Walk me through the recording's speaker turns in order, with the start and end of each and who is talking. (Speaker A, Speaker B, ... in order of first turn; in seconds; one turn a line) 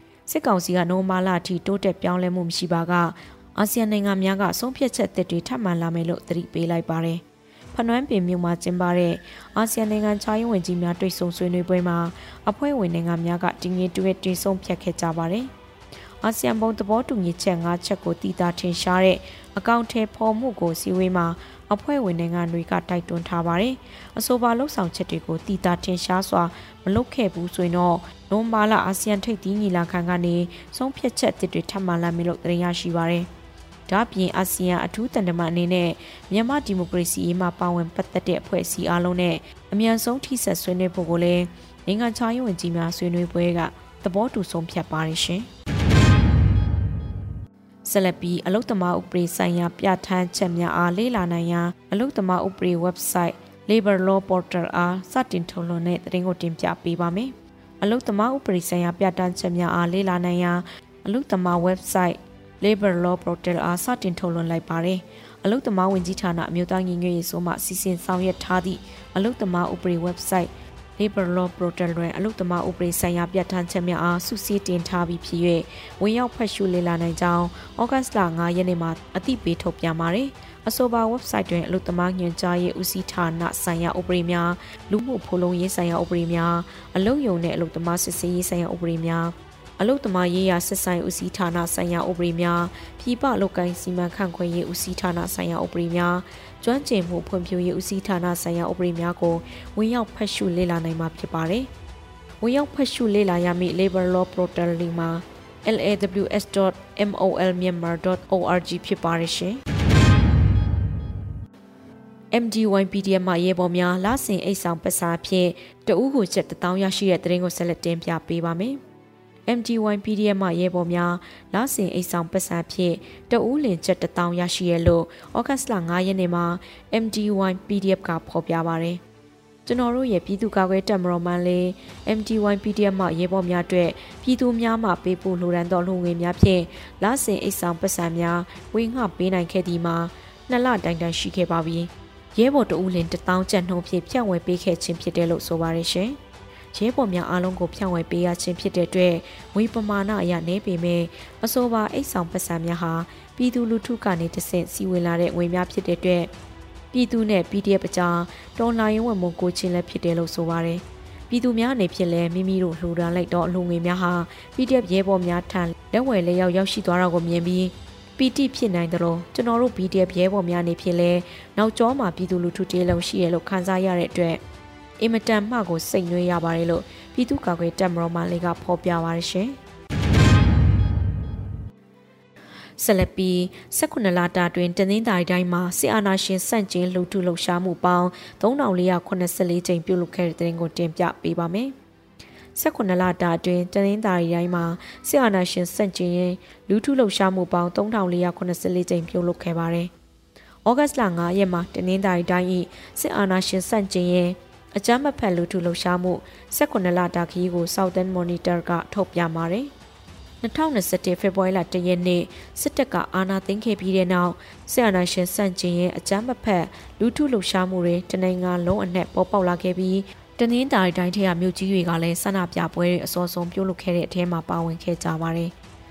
Speaker A: 0.3-7.2
Speaker A: 7.7-15.5
Speaker A: 16.2-33.3
Speaker A: 33.9-45.5
Speaker A: 47.9-101.7
Speaker A: 102.4-109.6
Speaker A: 112.3-118.8
Speaker A: 119.5-129.0
Speaker A: 129.7-146.2
Speaker A: 146.7-156.3
Speaker A: 156.9-174.4
Speaker A: 175.0-179.6
Speaker A: 182.8-191.7
Speaker A: 192.6-199.9
Speaker A: 200.7-209.7
Speaker A: 210.4-225.5